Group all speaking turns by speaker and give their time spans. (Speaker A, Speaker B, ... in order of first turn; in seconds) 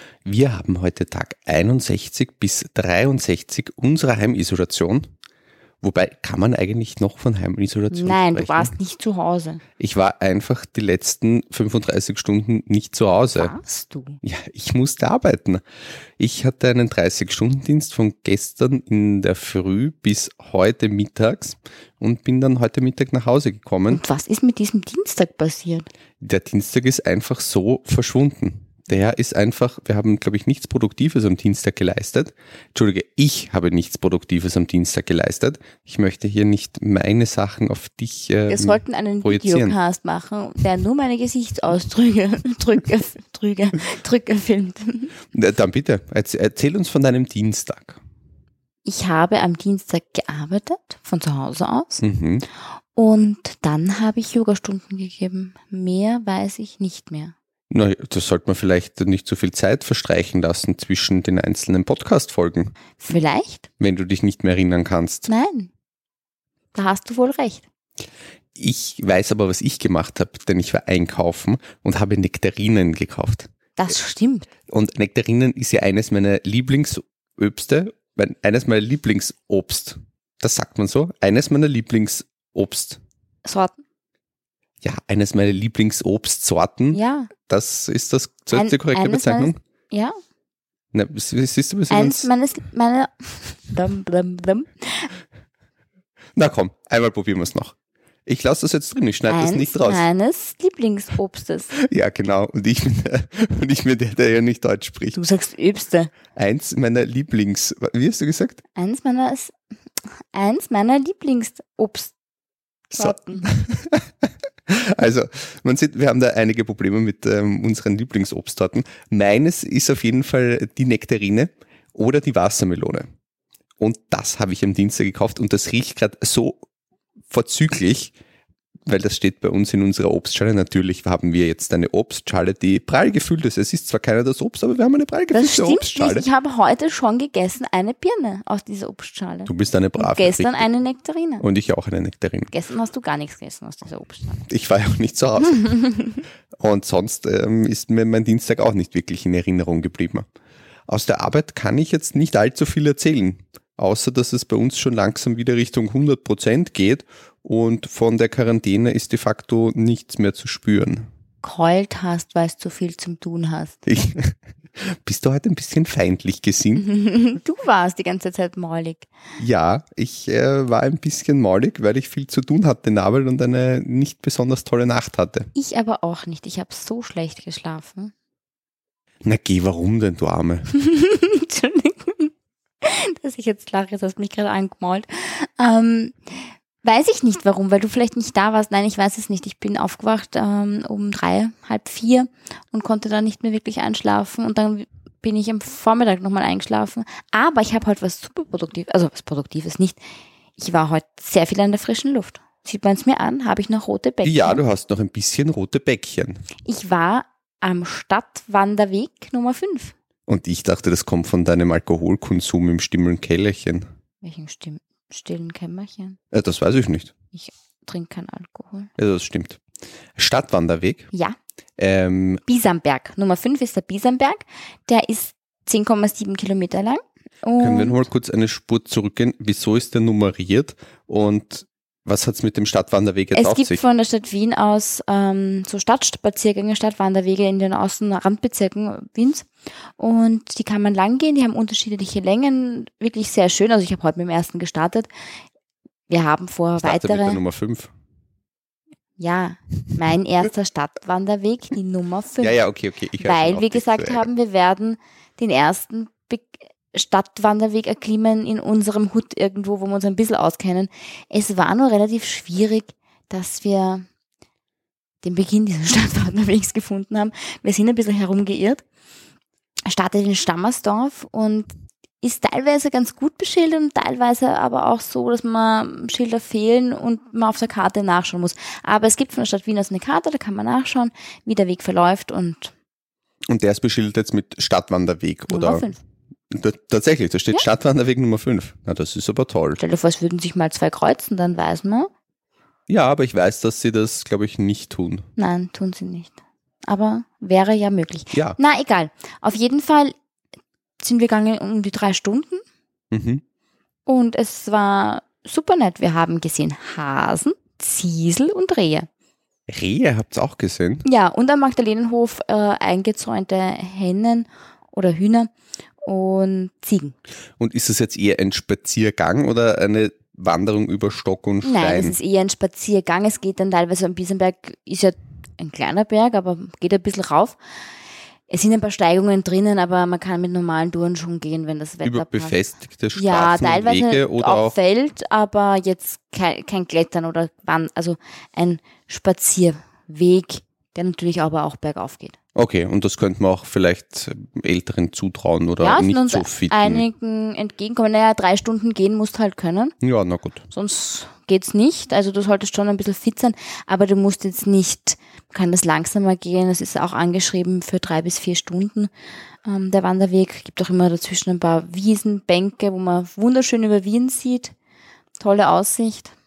Speaker A: 0.2-5.1, 5.8-8.7, 9.8-13.5, 14.2-15.6, 16.2-24.0, 26.2-39.8, 45.3-48.0, 52.0-52.5, 57.7-62.7, 63.8-65.3, 68.6-73.5, 74.7-83.0, 84.8-89.6, 90.9-92.3, 96.4-97.7, 98.3-100.0, 101.8-105.2, 106.3-108.6, 112.9-123.1, 123.8-126.6, 127.3-128.1, 128.9-136.3, 139.5-140.7, 141.4-142.5, 144.5-145.8, 146.6-150.3, 150.9-161.1, 163.9-166.8, 169.4-175.5, 179.2-180.7, 204.2-206.4, 210.3-213.9, 216.3-217.1, 219.0-219.6, 220.2-221.1, 221.8-222.4, 227.6-233.8, 246.8-247.9, 252.4-254.2, 283.5-285.9, 286.5-289.8, 292.9-295.2, 298.3-298.6, 303.1-303.4, 309.7-311.0, 317.6-322.2, 332.0-334.8, 342.6-347.0, 350.0-350.7
Speaker B: 7.9-9.6, 13.4-14.2, 23.9-25.9, 38.5-45.1, 48.9-52.0, 53.0-57.3, 63.0-63.7, 65.3-65.7, 66.8-67.6, 73.8-74.5, 83.5-83.8, 86.9-87.3, 88.5-90.2, 91.9-95.1, 99.3-101.7, 105.1-106.1, 108.8-109.5, 110.3-112.1, 112.9-113.5, 135.3-141.4, 142.5-144.5, 145.6-146.2, 161.4-163.8, 166.8-169.1, 175.6-178.1, 180.7-182.3, 182.8-200.0, 200.6-204.6, 206.7-209.9, 214.2-216.2, 217.3-218.9, 222.5-228.0, 233.3-245.1, 246.1-247.4, 249.2-252.6, 253.2-264.1, 265.2-268.8, 269.9-282.7, 285.5-286.0, 289.8-292.1, 295.4-296.4, 296.9-300.1, 301.0-302.6, 304.1-309.1, 311.0-315.5, 316.0-317.2, 321.6-327.6, 328.5-332.6, 333.1-342.4, 345.8-349.9, 350.7-359.1, 359.6-364.7, 365.4-366.3